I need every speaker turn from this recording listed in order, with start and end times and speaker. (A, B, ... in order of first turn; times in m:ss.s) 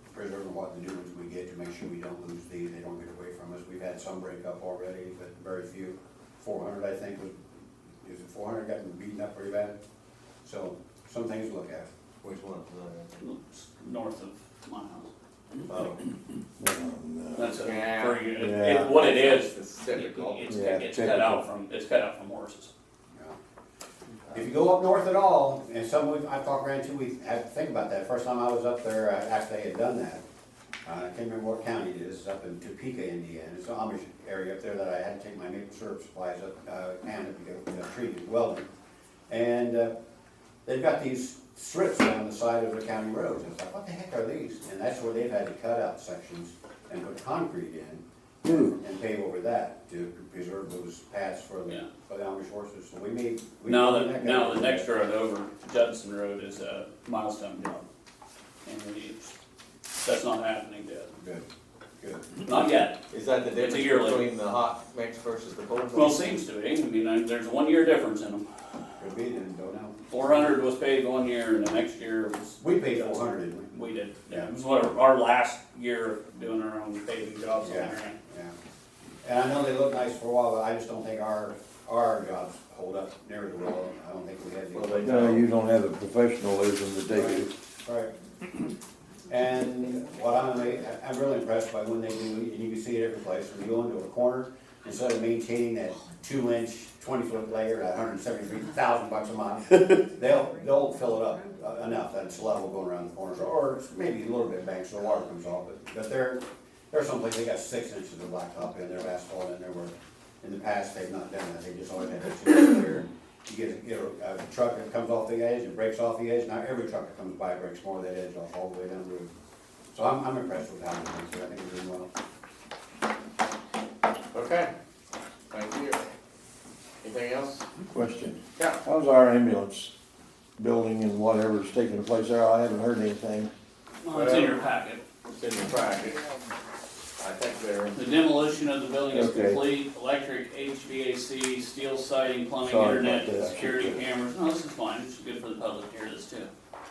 0:00.1-0:07.3 A
0:08.0-0:09.8 A
0:10.4-0:11.9 A
0:12.2-0:13.2 B
0:13.2-0:15.1 C
0:15.7-0:16.0 A
0:16.6-0:17.5 D
0:17.4-0:22.7 C
0:17.4-0:20.6 B
0:18.4-0:19.0 D
0:20.5-0:21.4 D
0:24.3-0:30.2 A
0:30.8-0:38.7 A
0:39.3-0:39.9 A
0:40.6-0:54.9 A
0:48.4-0:48.7 D
0:53.7-0:57.8 C
0:58.6-0:59.3 C
1:00.0-1:01.1 C
1:01.2-1:01.5 A
1:02.0-1:02.3 A
1:02.4-1:03.0 C
1:03.1-1:06.3 B
1:03.6-1:04.3 C
1:05.9-1:08.5 C
1:09.0-1:10.4 A
1:10.1-1:12.6 C
1:12.6-1:13.7 A
1:13.7-1:18.2 C
1:17.6-1:18.5 A
1:19.2-1:25.5 A
1:24.8-1:25.1 B
1:24.9-1:27.5 D
1:27.1-1:28.1 A
1:29.3-1:59.3 A
1:59.9-2:02.1 A
2:04.3-2:04.7 B
2:05.5-2:06.0 B
2:07.0-2:07.6 B
2:07.9-2:09.9 D
2:10.6-2:13.5 D
2:14.0-2:15.0 C
2:14.1-2:14.6 B
2:15.3-2:16.2 B
2:17.2-2:18.0 B
2:18.0-2:26.5 C
2:19.1-2:19.7 D
2:22.6-2:24.0 D